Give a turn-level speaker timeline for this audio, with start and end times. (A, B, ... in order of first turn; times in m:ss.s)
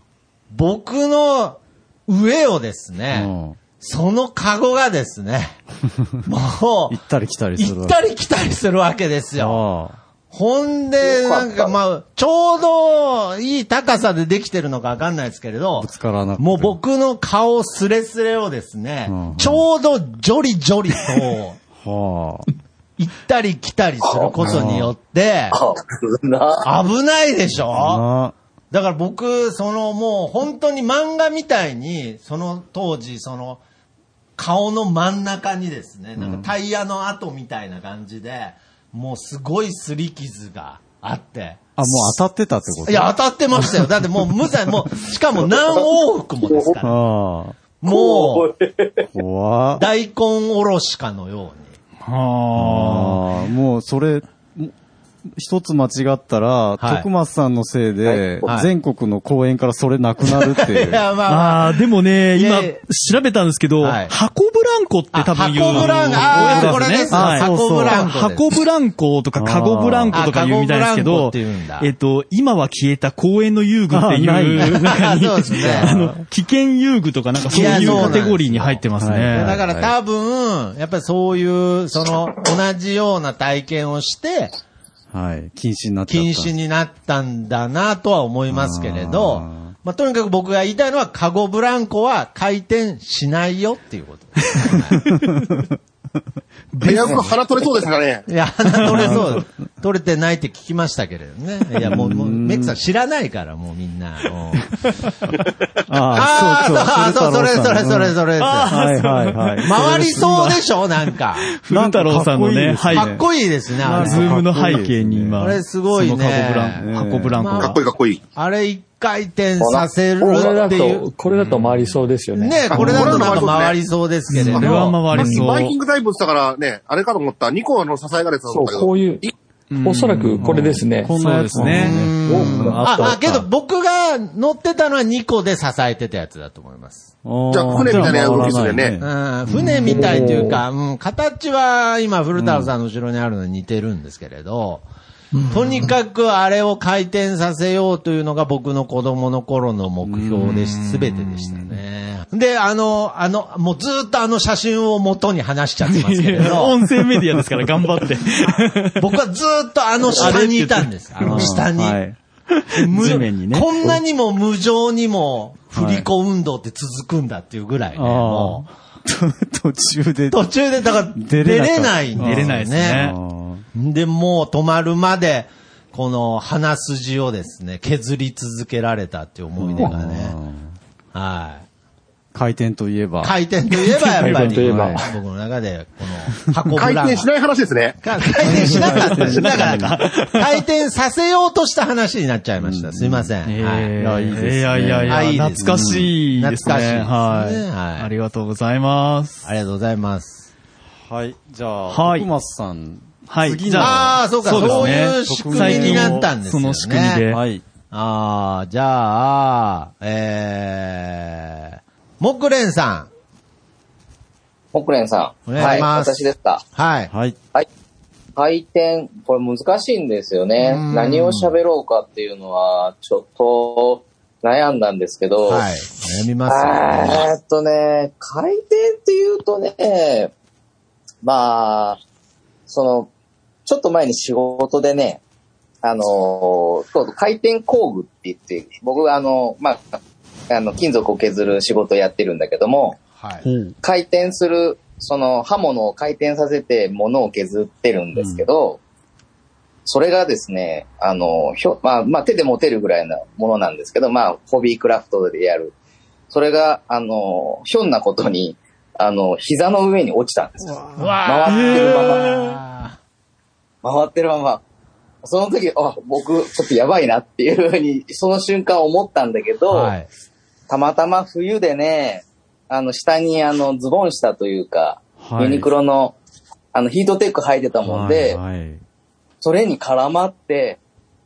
0:00.5-0:05.6 A
0:03.1-0:03.6 B
0:06.3-0:07.0 A
0:06.9-0:08.0 B
0:07.6-0:09.7 A
0:09.4-0:10.0 B
0:10.3-0:21.6 A
0:11.0-0:11.7 C
0:15.8-0:16.8 B
0:19.1-0:19.6 B
0:21.8-0:22.5 B
0:23.0-0:25.6 A
0:24.0-0:24.3 C
0:24.4-0:24.9 B
0:25.5-0:26.7 C
0:26.6-0:28.0 A
0:27.7-0:28.3 B
0:28.7-0:33.6 A
0:34.4-0:42.1 A
0:36.2-0:36.5 B
0:41.8-0:43.7 B
0:42.8-0:47.0 A
0:46.4-0:46.8 C
0:46.8-0:47.6 B
0:47.8-0:48.5 A
0:47.9-0:49.1 C
0:49.1-0:49.9 B
0:49.8-0:51.8 A
0:52.1-0:53.2 D
0:52.6-0:54.7 B
0:55.4-1:01.1 B
0:56.8-0:57.1 A
0:58.0-0:58.5 C
0:58.4-0:58.7 A
1:00.2-1:01.8 A
1:01.3-1:19.6 D
1:02.4-1:02.8 A
1:03.8-1:04.1 A
1:05.1-1:08.5 A
1:05.7-1:08.1 B
1:09.4-1:10.2 B
1:10.1-1:11.9 A
1:13.9-1:15.0 B
1:14.6-1:16.0 A
1:15.6-1:16.2 B
1:17.5-1:18.2 B
1:17.5-1:24.5 A
1:19.0-1:20.0 B
1:25.1-1:26.5 B
1:26.1-1:35.0 A
1:28.5-1:29.8 B
1:36.8-1:37.2 D
1:36.8-1:38.2 E
1:38.3-1:44.7 A
1:38.8-1:39.2 D
1:38.9-1:39.4 B
1:41.8-1:42.8 B
1:45.9-1:50.4 B
1:46.1-1:48.7 A
1:48.4-1:50.7 D
1:49.6-1:51.6 A
1:51.5-1:53.2 D
1:51.7-1:55.5 B
1:52.9-1:54.6 A
1:53.9-1:57.8 D
1:55.4-2:01.1 A
1:56.8-1:57.5 B
1:57.6-1:58.2 E
1:59.6-2:00.5 C
2:00.2-2:03.4 F
2:01.4-2:01.9 B
2:02.3-2:05.0 A
2:02.7-2:03.8 E
2:04.3-2:05.8 D
2:04.5-2:09.3 E
2:05.1-2:05.5 F
2:08.5-2:09.3 F
2:09.7-2:10.6 D
2:09.8-2:13.1 F
2:10.4-2:13.4 B
2:11.1-2:12.7 D
2:11.8-2:17.1 A
2:17.2-2:20.5 B
2:17.5-2:19.0 E
2:19.0-2:24.8 A
2:19.8-2:20.6 F
2:22.4-2:22.7 B
2:25.3-2:25.9 F
2:25.5-2:36.8 A
2:30.0-2:31.4 B
2:35.8-2:39.1 D
2:39.0-2:42.0 A
2:40.2-2:41.7 D
2:41.2-2:42.2 B
2:42.6-2:43.9 D
2:42.8-2:48.6 A
2:45.7-2:46.1 B
2:48.0-2:50.5 B
2:50.3-2:53.1 A
2:51.2-2:53.6 B
2:52.2-2:53.2 D
2:53.7-3:00.4 A
2:59.6-3:00.7 B
3:01.1-3:01.6 A
3:02.3-3:03.4 B
3:03.2-3:07.3 A
3:03.9-3:05.1 B
3:04.2-3:05.1 F
3:06.8-3:08.0 E
3:08.0-3:13.9 A
3:08.4-3:09.9 B
3:08.4-3:10.6 D
3:12.6-3:13.4 B
3:13.4-3:19.5 D
3:14.0-3:16.1 B
3:15.1-3:18.1 A
3:19.4-3:20.5 A
3:21.1-3:26.4 B
3:21.9-3:22.3 D
3:23.3-3:27.4 D
3:23.8-3:27.2 A
3:27.3-3:27.6 B
3:27.9-3:33.1 A
3:34.7-3:36.6 C
3:35.5-3:36.2 A
3:36.8-3:37.1 A
3:37.1-3:37.4 B
3:38.4-3:45.6 C
3:40.6-3:41.6 A
3:45.5-3:47.3 A
3:46.5-3:50.3 C
3:51.2-3:52.0 C
3:52.7-3:53.1 C
3:53.7-3:55.2 C
3:55.8-4:00.0 C
4:00.5-4:03.0 C
4:03.2-4:03.4 A
4:03.4-4:03.7 D
4:03.8-4:08.8 C
4:08.2-4:08.5 B
4:09.9-4:15.7 C
4:16.3-4:22.4 C
4:21.0-4:23.0 A
4:21.5-4:22.1 D
4:23.8-4:24.6 C
4:25.2-4:29.9 C
4:29.7-4:30.1 A
4:30.7-4:36.2 C
4:35.2-4:35.7 B
4:36.7-4:38.4 C
4:37.8-4:38.8 B
4:39.4-4:40.8 C